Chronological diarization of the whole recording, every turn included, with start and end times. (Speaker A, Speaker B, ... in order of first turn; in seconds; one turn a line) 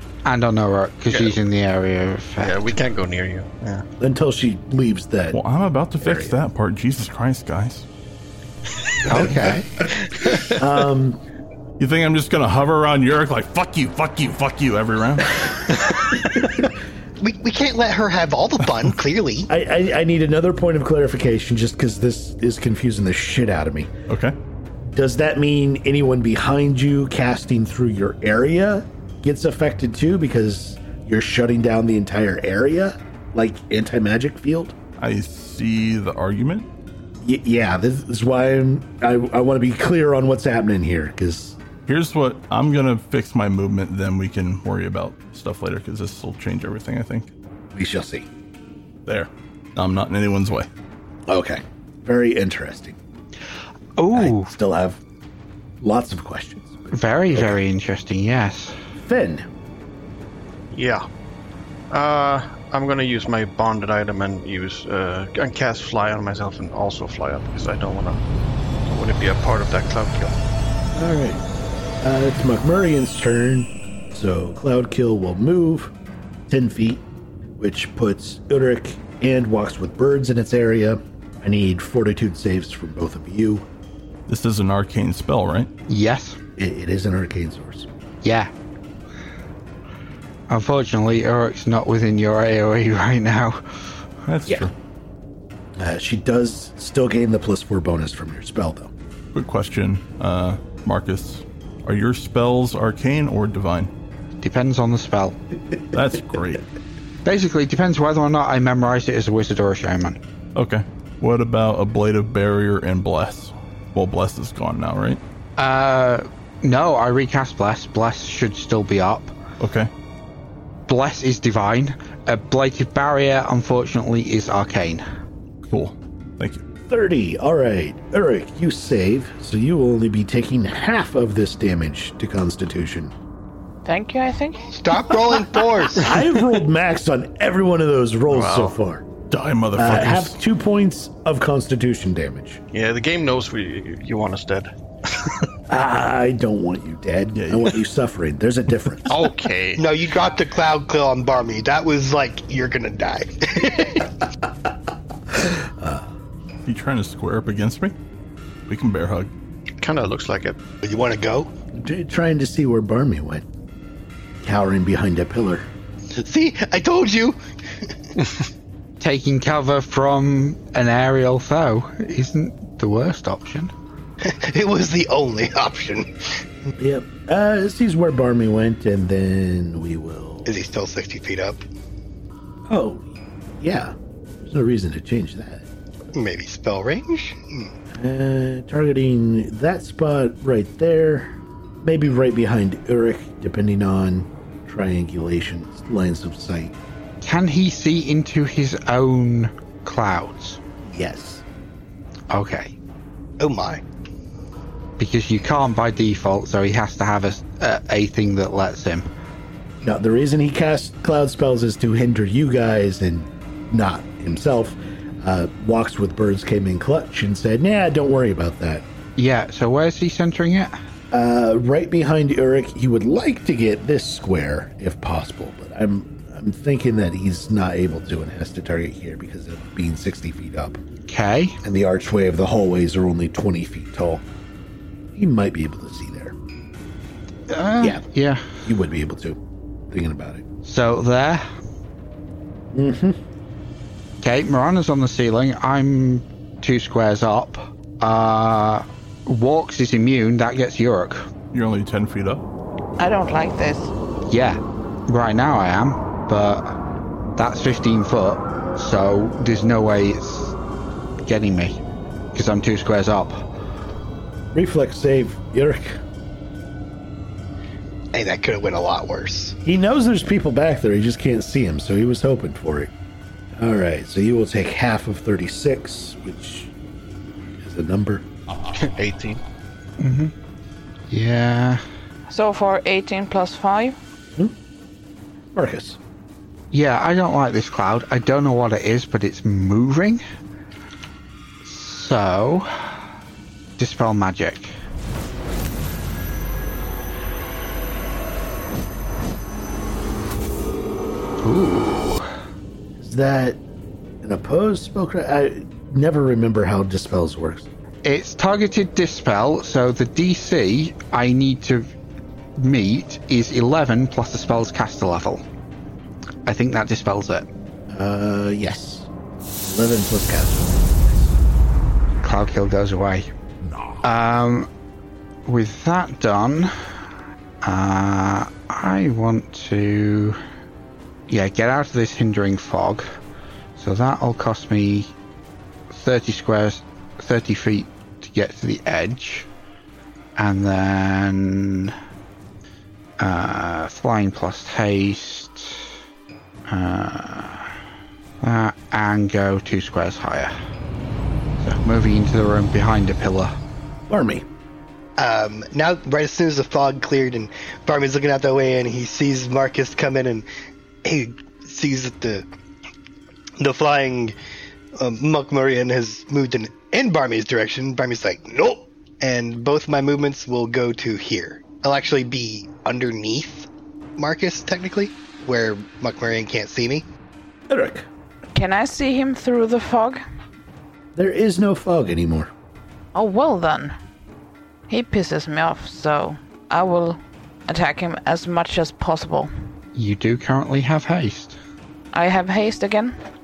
Speaker A: 0.2-2.7
Speaker B: 1.1-1.4
Speaker B: 2.4-3.9
Speaker C: 4.0-5.4
Speaker D: 5.3-7.8
Speaker C: 6.0-6.3
Speaker A: 9.1-9.6
Speaker C: 9.1-9.7
Speaker C: 10.6-11.2
Speaker D: 11.8-15.8
Speaker C: 16.3-16.7
Speaker E: 17.2-19.5
Speaker C: 19.5-23.9
Speaker D: 24.1-24.3
Speaker C: 24.8-34.7
Speaker D: 35.0-36.7
Speaker C: 37.2-41.6
Speaker D: 41.9-47.3
Speaker C: 47.7-48.3
Speaker D: 49.0-50.7
Speaker C: 51.3-53.0
Speaker A: 54.0-54.5
Speaker C: 54.1-55.0
Speaker C: 55.8-57.6
Speaker A: 56.9-58.8
Speaker C: 59.0-59.5
Speaker B: 60.7-61.0
Speaker B: 61.9-68.2
Speaker B: 68.8-70.4
Speaker C: 70.9-71.4
Speaker C: 72.0-75.9
Speaker C: 76.5-77.0
Speaker C: 77.6-83.7
Speaker D: 84.3-85.7
Speaker A: 85.9-86.4
Speaker C: 86.6-87.9
Speaker A: 88.2-88.5
Speaker A: 90.5-93.9
Speaker D: 94.3-94.7
Speaker C: 95.8-98.9
Speaker D: 99.3-103.9
Speaker A: 104.4-105.4
Speaker D: 105.9-106.6
Speaker A: 107.2-110.2
Speaker D: 110.5-115.2
Speaker A: 115.6-119.3
Speaker D: 119.6-119.9
Speaker A: 120.9-125.0
Speaker D: 125.7-126.6
Speaker C: 126.9-133.1
Speaker F: 133.8-134.8
Speaker E: 134.7-136.1
Speaker C: 136.0-139.0
Speaker B: 138.3-138.8
Speaker D: 139.3-140.3
Speaker C: 139.8-142.6
Speaker B: 142.7-145.3
Speaker C: 145.7-149.2
Speaker D: 147.3-147.8
Speaker B: 149.1-149.8
Speaker E: 149.8-154.1
Speaker C: 155.3-156.1
Speaker D: 156.6-157.9
Speaker D: 158.7-159.3
Speaker B: 159.8-160.6
Speaker E: 160.8-161.5
Speaker C: 161.7-163.4
Speaker C: 164.4-165.7
Speaker E: 166.1-167.9
Speaker A: 169.0-173.7
Speaker E: 174.2-176.1
Speaker C: 176.8-180.5
Speaker E: 180.4-181.6
Speaker C: 182.7-185.7
Speaker E: 186.1-187.7
Speaker C: 187.9-196.7
Speaker A: 197.2-200.6
Speaker C: 200.8-201.4
Speaker A: 202.3-202.7
Speaker E: 203.4-203.8
Speaker A: 205.0-209.1
Speaker C: 209.8-218.8
Speaker A: 219.2-220.8
Speaker C: 221.1-230.8
Speaker A: 231.1-231.6
Speaker C: 231.6-234.2
Speaker C: 235.1-236.3
Speaker A: 237.5-238.5
Speaker C: 238.6-239.4
Speaker C: 239.9-240.4
Speaker A: 240.6-241.5
Speaker C: 242.7-243.2
Speaker A: 244.2-251.3
Speaker D: 251.5-252.4
Speaker F: 253.0-253.9
Speaker A: 254.3-260.6
Speaker A: 261.2-261.8
Speaker A: 262.3-263.5
Speaker C: 264.5-266.0
Speaker E: 268.1-269.6
Speaker C: 269.6-272.9
Speaker C: 273.6-276.7
Speaker C: 277.6-278.2
Speaker B: 278.7-279.4
Speaker A: 280.0-280.3
Speaker A: 281.1-281.8
Speaker F: 282.3-283.9
Speaker C: 285.5-286.0
Speaker A: 286.7-290.2
Speaker A: 291.6-292.9
Speaker A: 293.8-294.7
Speaker A: 301.4-302.3
Speaker C: 303.0-303.6
Speaker C: 304.2-307.7
Speaker A: 308.0-311.9
Speaker A: 312.6-315.4
Speaker A: 316.4-317.5
Speaker C: 317.9-319.1
Speaker C: 319.6-321.4
Speaker A: 322.2-323.3
Speaker A: 324.0-324.7
Speaker A: 325.4-326.7
Speaker A: 327.6-330.4
Speaker A: 331.3-333.1
Speaker A: 333.8-335.1
Speaker A: 335.9-339.5
Speaker A: 340.4-341.9
Speaker A: 343.2-345.9
Speaker A: 346.7-347.7
Speaker A: 348.4-350.6
Speaker A: 351.6-353.6
Speaker C: 354.1-354.4
Speaker E: 355.2-360.4
Speaker E: 361.0-362.4
Speaker E: 363.6-364.3
Speaker E: 365.0-377.1
Speaker C: 377.7-378.1
Speaker F: 378.5-380.2
Speaker C: 381.1-382.5
Speaker F: 383.1-383.9
Speaker F: 384.9-389.5
Speaker A: 389.9-391.6
Speaker F: 392.1-393.2